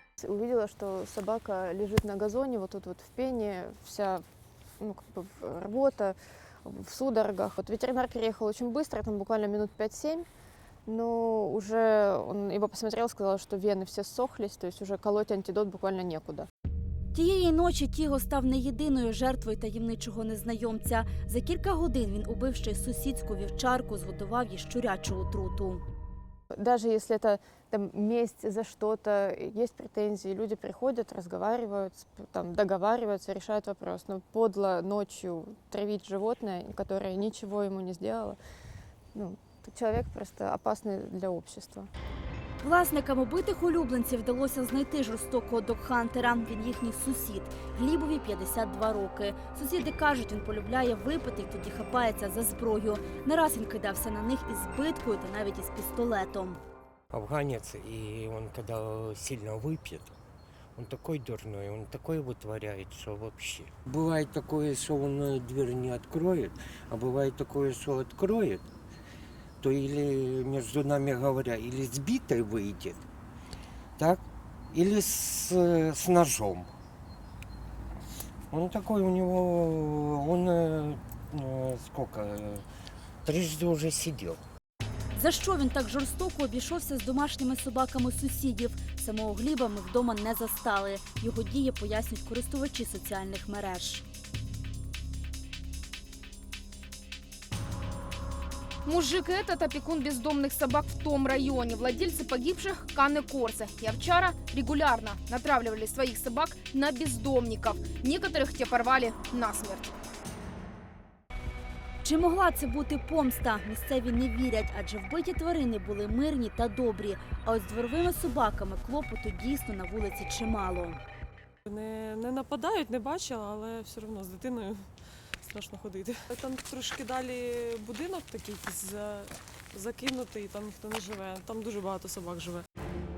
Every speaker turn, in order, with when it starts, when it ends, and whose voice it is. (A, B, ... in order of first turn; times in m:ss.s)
0:00.2-0:04.2 A
0:04.8-0:10.2 A
0:10.9-0:16.5 A
0:17.1-0:25.8 B
0:26.6-0:38.4 A
0:39.2-0:41.9 A
0:42.6-0:56.6 B
0:57.1-1:00.2 C
1:00.8-1:08.6 C
1:09.6-1:13.0 C
1:14.0-1:16.7 C
1:18.5-1:22.6 C
1:23.2-1:24.4 C
1:25.1-1:34.0 B
1:38.8-1:49.9 D
1:52.0-2:01.0 B
2:01.7-2:04.9 E
2:05.4-2:12.7 E